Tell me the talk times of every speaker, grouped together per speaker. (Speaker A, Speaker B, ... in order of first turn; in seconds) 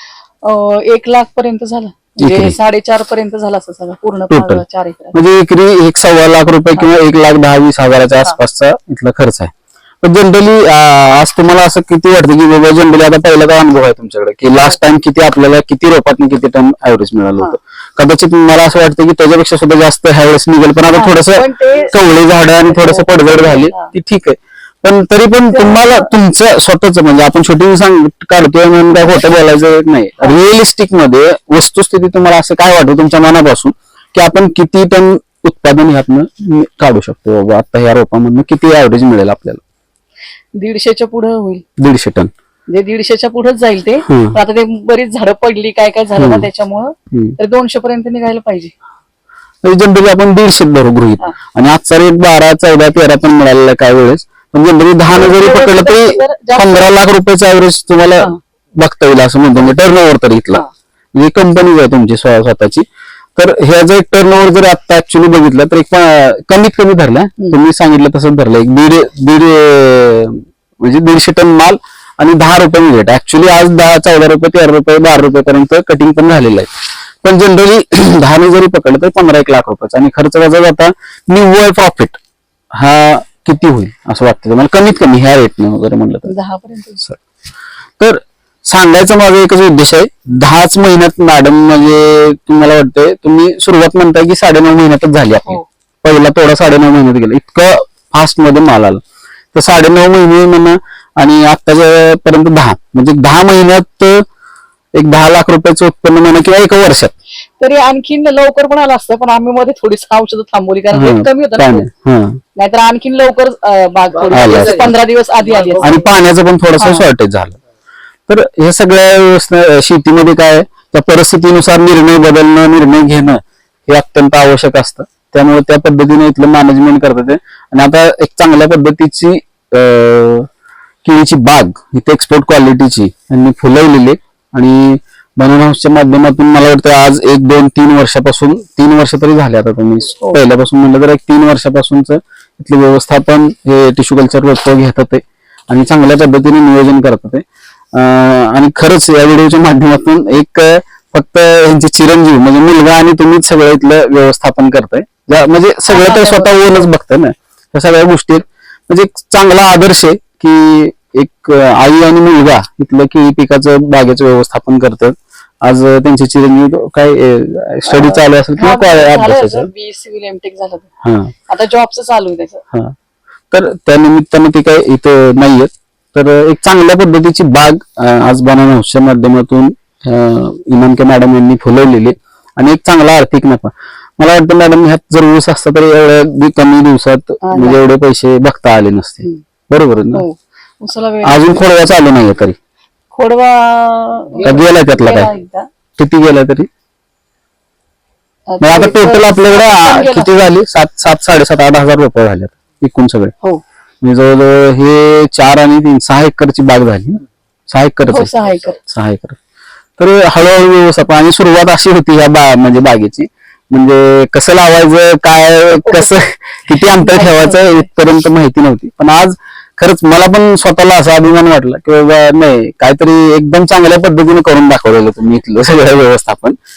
Speaker A: 0.4-5.2, 20.9-22.0, 22.7-23.9, 25.5-26.1, 40.6-41.6, 42.7-48.7, 55.1-56.9, 86.3-87.1, 107.6-111.9, 112.6-116.0, 116.8-117.1, 155.9-156.8, 167.8-170.9, 171.5-172.6, 187.4-187.8, 190.1-191.5, 193.1-195.7, 198.5-200.4, 208.1-208.8, 216.8-217.9
Speaker B: 2.2-2.5, 4.3-4.6, 5.1-39.6, 41.8-42.3, 44.0-44.4, 46.2-46.5, 49.6-60.6, 61.1-62.9, 63.4-82.2, 82.7-86.3, 88.0-99.0, 99.5-104.2, 105.0-107.1, 110.9-112.4, 114.3-114.9, 115.8-117.6, 118.3-130.5, 131.0-169.7, 171.0-171.3, 173.5-190.2, 191.2-192.6, 194.4-195.3, 196.0-196.7, 198.6-203.3, 204.0-209.4, 210.0-226.6